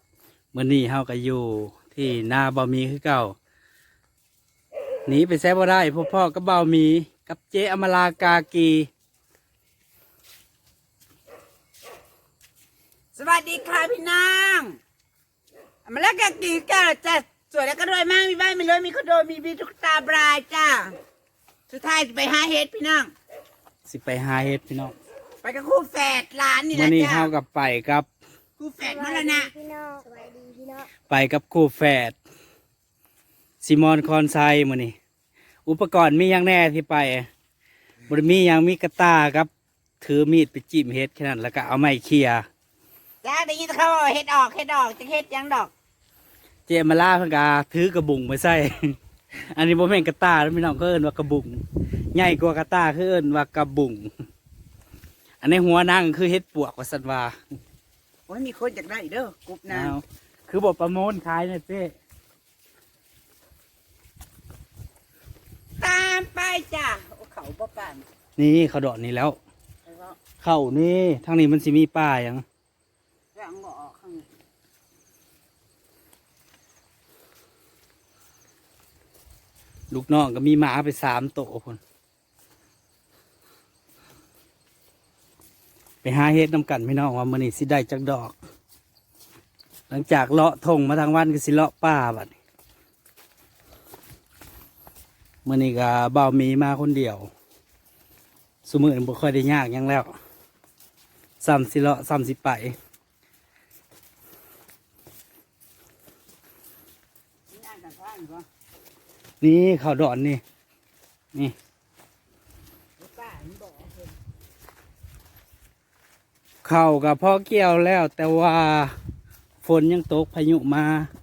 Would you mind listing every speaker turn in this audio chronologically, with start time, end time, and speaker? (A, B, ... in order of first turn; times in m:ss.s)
0:00.5-0:03.4 A
0:05.1-0:08.9 A
0:13.1-0:14.8 B
0:15.8-0:21.0 B
0:21.7-0:23.1 B
0:23.8-0:24.9 A
0:25.4-0:27.3 B
0:26.7-0:28.1 A
0:28.6-0:29.5 B
0:28.8-0:30.9 C
0:31.1-0:32.2 A
0:33.6-0:34.9 A
0:35.6-0:37.3 A
0:38.1-0:39.5 A
0:40.0-0:42.4 A
0:43.2-0:45.7 B
0:46.7-0:49.0 A
0:49.5-0:54.1 A
0:55.4-0:57.4 A
0:58.3-0:59.9 B
0:59.7-1:01.9 A
1:05.8-1:08.0 B
1:08.4-1:09.4 A
1:09.8-1:10.2 B
1:10.4-1:12.4 A
1:13.3-1:14.3 B
1:19.9-1:21.8 A
1:26.0-1:28.3 A
1:29.9-1:32.3 A
1:35.4-1:37.3 A
1:38.6-1:40.1 A
1:41.4-1:42.8 A
1:47.5-1:48.4 B
1:49.4-1:50.4 A
1:53.0-1:54.2 B
1:56.6-1:59.0 A
1:59.6-2:01.1 A